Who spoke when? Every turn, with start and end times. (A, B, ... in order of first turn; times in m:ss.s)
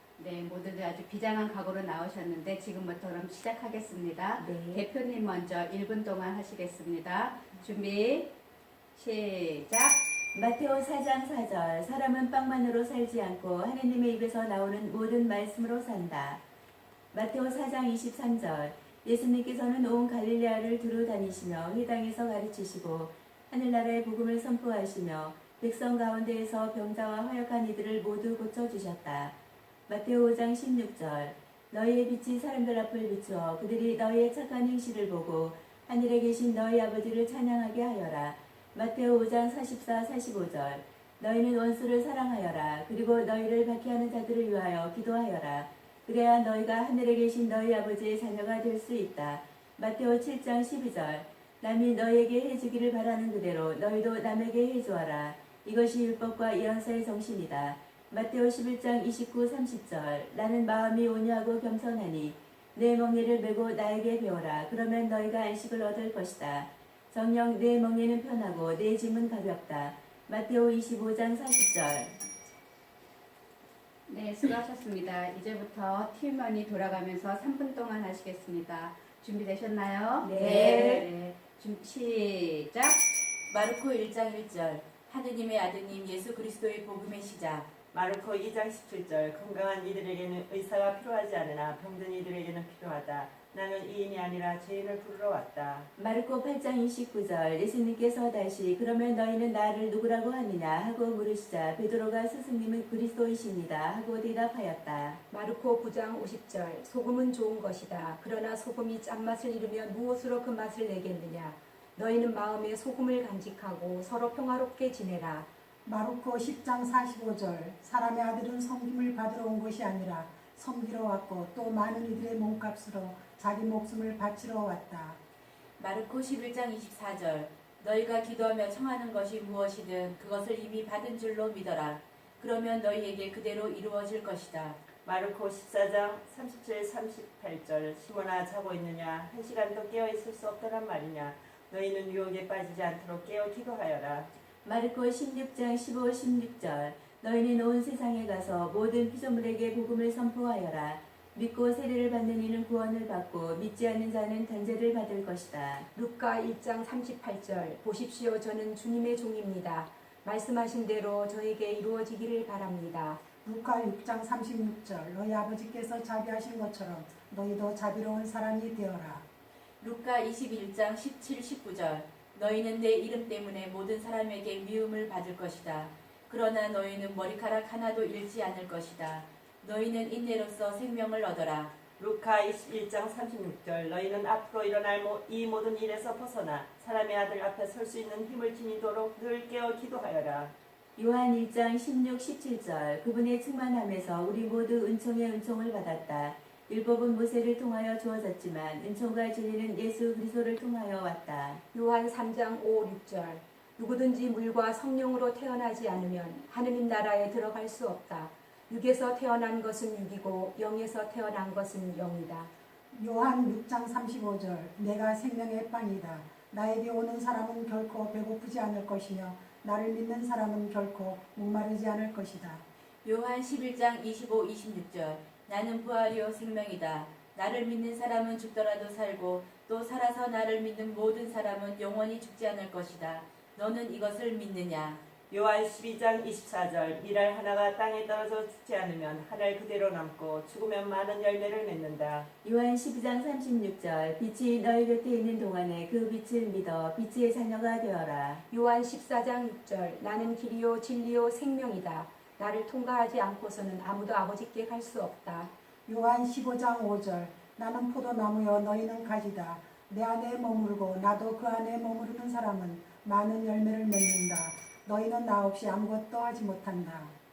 0:00.2-0:08.3 A
0:04.4-0:04.8 B
0:09.0-0:10.0 A
0:10.3-0:16.4 B
0:17.1-0:29.4 B
0:29.9-1:12.1 B
1:14.1-1:23.0 A
1:20.2-1:21.1 B
1:20.4-1:20.9 C
1:23.5-1:27.7 C
1:27.9-1:35.9 D
1:36.0-1:45.2 B
1:45.3-1:55.5 E
1:55.9-2:05.2 F
2:05.8-2:14.8 C
2:15.0-2:24.3 D
2:24.6-2:35.9 B
2:36.0-2:43.2 E
2:43.4-2:49.2 F
2:49.8-3:01.7 C
3:02.0-3:10.5 D
3:11.0-3:21.6 B
3:21.7-3:32.5 E
3:32.9-3:42.6 F
3:43.0-3:55.0 C
3:55.3-4:02.3 D
4:02.4-4:08.4 B
4:08.5-4:15.5 E
4:15.9-4:27.1 F